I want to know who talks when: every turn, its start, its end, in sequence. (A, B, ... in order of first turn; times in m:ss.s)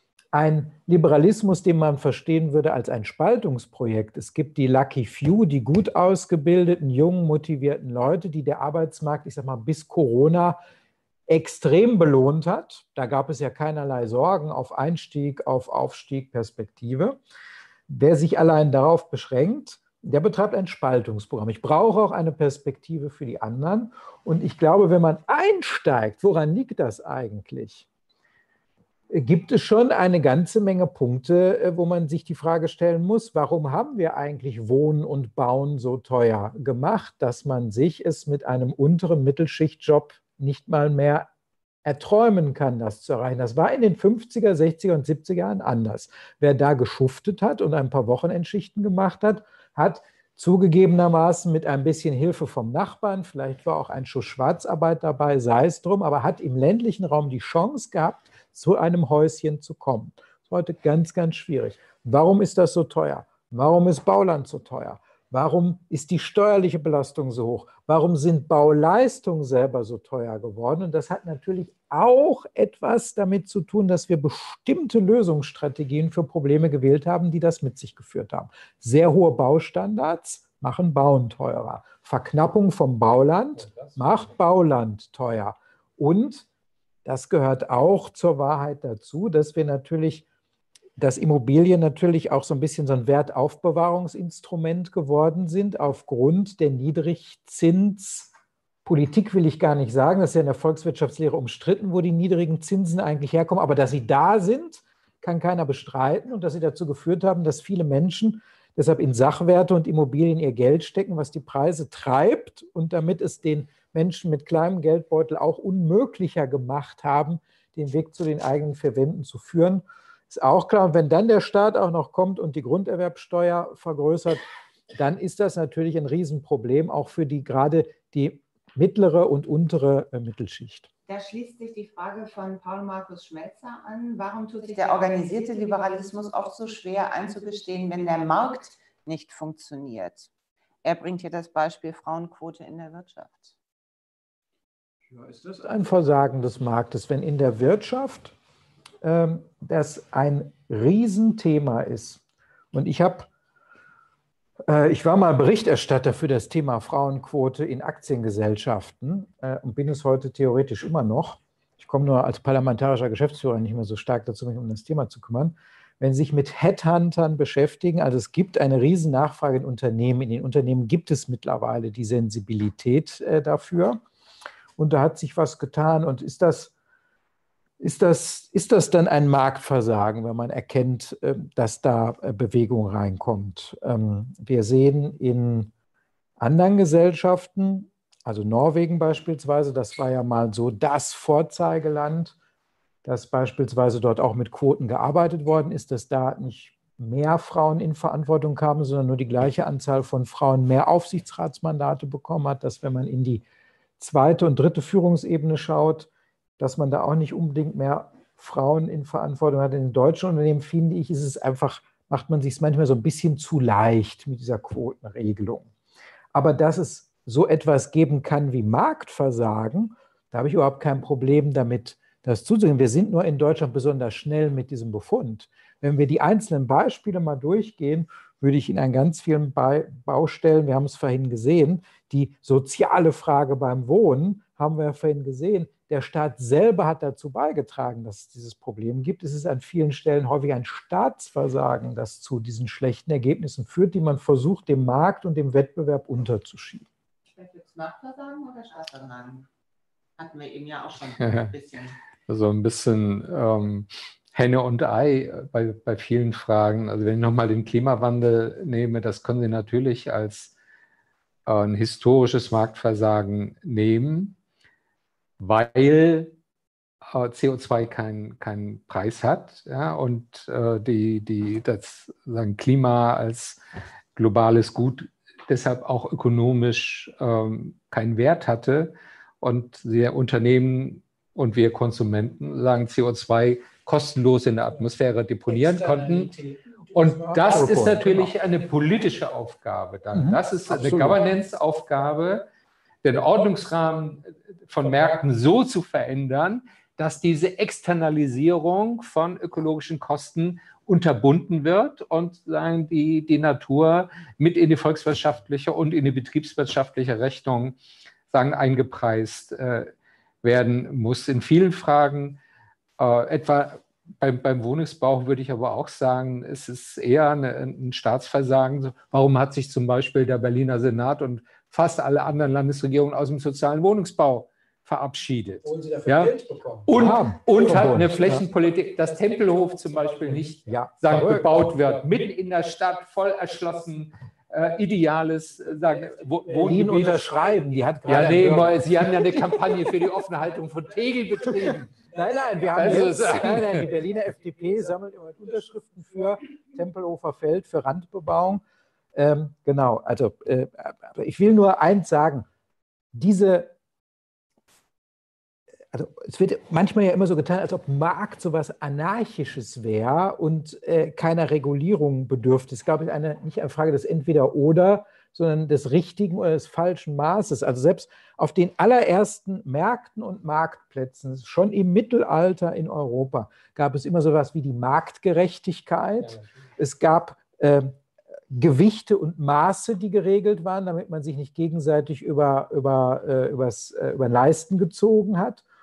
0:00.3-0:10.6 A
0:11.3-0:17.2 A
0:17.9-0:27.9 A
0:29.1-0:41.3 A
0:41.8-1:26.5 A
1:23.6-1:24.0 B
1:27.0-1:30.2 A
1:31.0-1:38.3 A
1:38.8-2:10.9 A
2:11.1-2:20.3 C
2:20.8-2:23.6 C
2:25.1-2:28.3 A
2:29.0-2:32.2 A
2:32.7-2:33.3 A
2:34.7-2:54.0 A
2:54.8-2:56.7 A
2:57.8-3:05.7 A
3:06.4-3:12.4 A
3:13.0-3:23.4 A
3:24.0-3:35.7 A
3:36.3-4:06.9 A
4:07.3-4:09.5 C
4:10.2-4:12.0 C
4:11.2-4:11.5 B
4:12.3-4:20.5 B
4:21.5-4:24.4 B
4:25.4-4:26.3 B
4:27.1-4:33.6 B
4:34.2-4:46.3 B
4:45.6-4:48.4 A
4:46.9-4:52.5 B
4:50.1-4:51.2 A
4:53.0-5:07.8 B
5:08.3-5:09.9 B
5:10.4-5:12.4 B
5:13.0-5:37.5 B
5:25.6-5:28.5 A
5:30.6-5:31.8 A
5:36.5-5:39.6 A
5:38.1-5:42.0 B
5:41.6-5:48.6 A
5:42.8-5:43.9 B
5:49.1-5:52.5 A
5:53.1-5:53.8 A
5:55.9-6:18.0 A
6:18.5-6:25.6 A